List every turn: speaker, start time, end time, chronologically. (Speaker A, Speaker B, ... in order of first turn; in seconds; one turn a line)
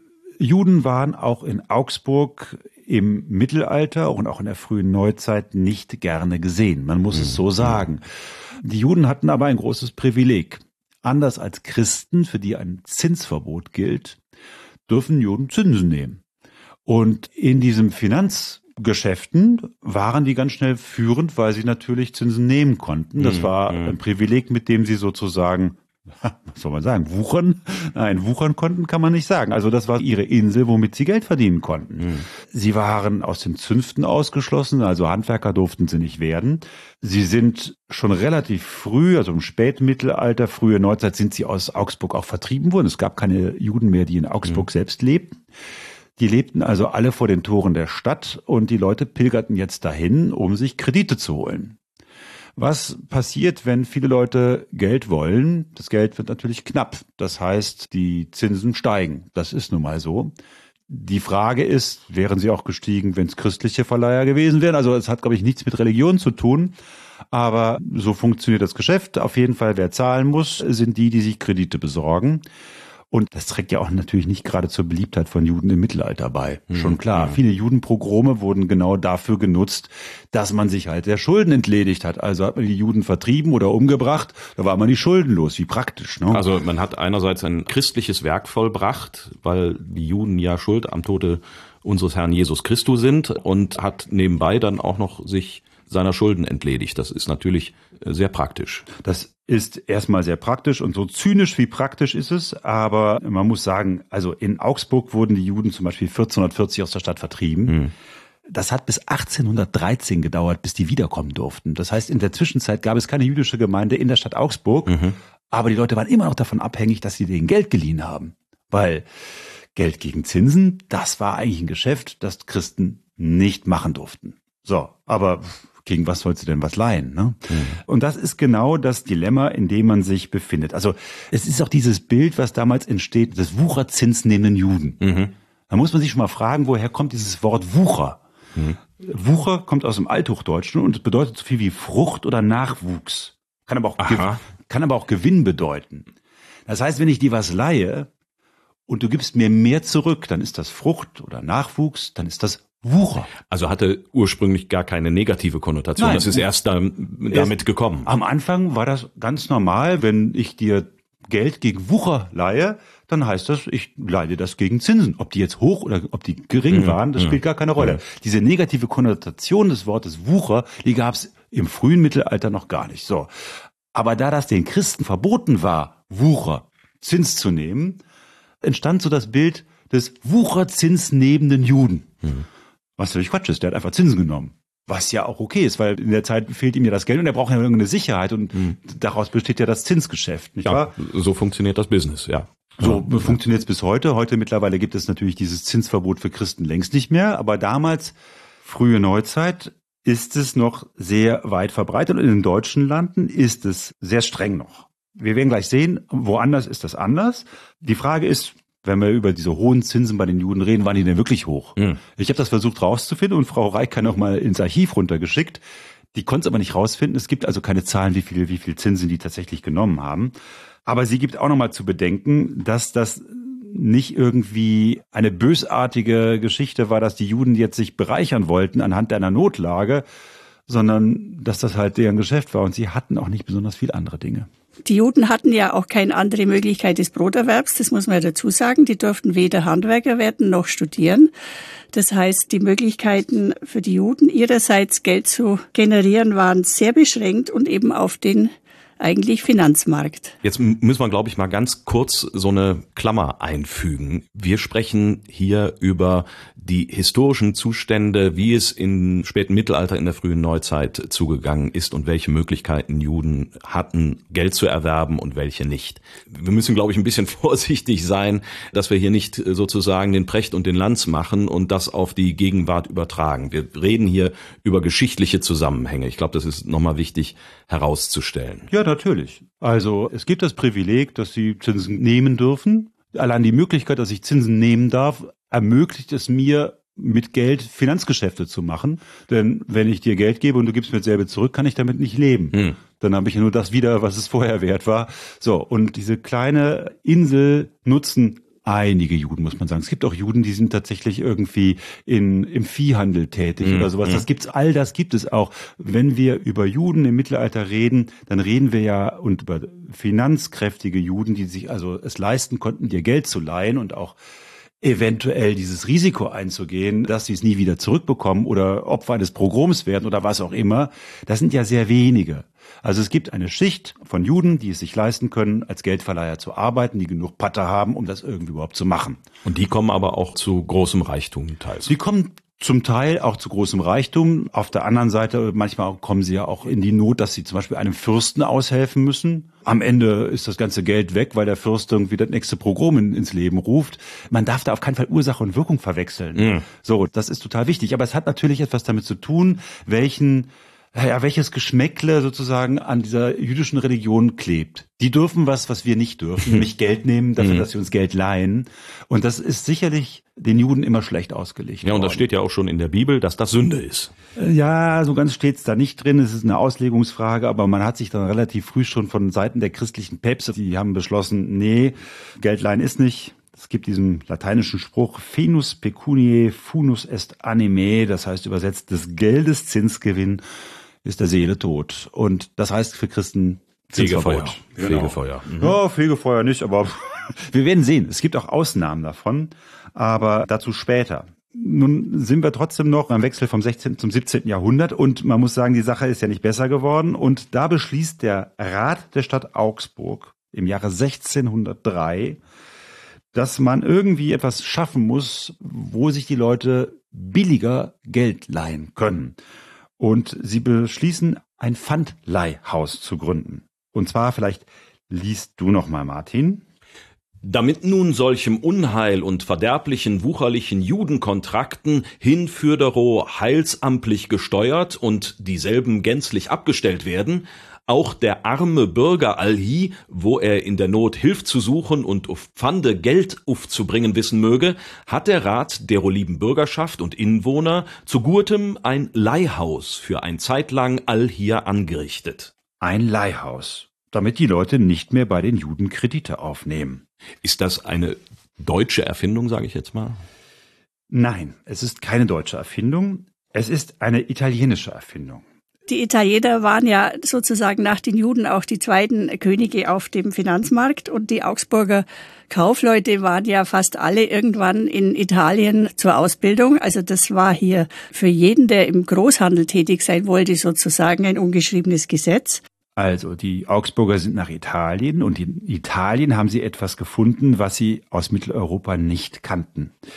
Speaker A: 0.4-8.0
Speaker B: 7.1-7.8
Speaker A: 8.6-14.2
Speaker A: 14.9-16.2
Speaker A: 16.9-45.4
Speaker B: 23.2-23.9
Speaker A: 46.2-51.8
Speaker A: 52.6-60.3
Speaker A: 60.9-66.8
Speaker A: 67.3-72.4
Speaker A: 73.1-86.4
Speaker B: 76.7-77.4
Speaker B: 86.3-98.9
Speaker A: 99.0-107.8
Speaker B: 107.7-107.9
Speaker A: 108.5-115.0
Speaker B: 114.9-115.2
Speaker A: 115.5-119.0
Speaker A: 119.7-135.0
Speaker B: 127.5-127.8
Speaker B: 135.0-135.3
Speaker A: 135.7-138.2
Speaker A: 139.0-146.1
Speaker B: 144.0-144.4
Speaker A: 146.7-148.1
Speaker A: 148.9-153.3
Speaker B: 153.5-158.1
Speaker A: 156.0-156.5
Speaker A: 157.3-173.3
Speaker B: 166.7-168.0
Speaker A: 173.9-178.0
Speaker A: 178.6-182.1
Speaker A: 183.0-190.9
Speaker B: 190.6-193.3
Speaker A: 192.8-215.6
Speaker A: 216.1-220.3
Speaker A: 220.8-230.0
Speaker A: 230.7-234.5
Speaker C: 234.9-241.3
Speaker C: 241.9-250.3
Speaker B: 250.4-278.7
Speaker A: 278.7-314.1
Speaker B: 303.6-304.2
Speaker A: 314.8-329.2
Speaker B: 329.4-331.9
Speaker A: 331.9-362.2
Speaker B: 346.4-346.6
Speaker B: 357.4-357.7
Speaker B: 361.8-364.1
Speaker A: 364.4-380.4
Speaker A: 381.0-402.4
Speaker B: 383.9-385.8
Speaker A: 403.3-409.4
Speaker A: 410.0-416.6
Speaker B: 417.4-442.5
Speaker A: 442.8-447.0
Speaker B: 447.4-450.2
Speaker A: 451.1-455.4
Speaker C: 455.9-472.6
Speaker A: 473.0-479.9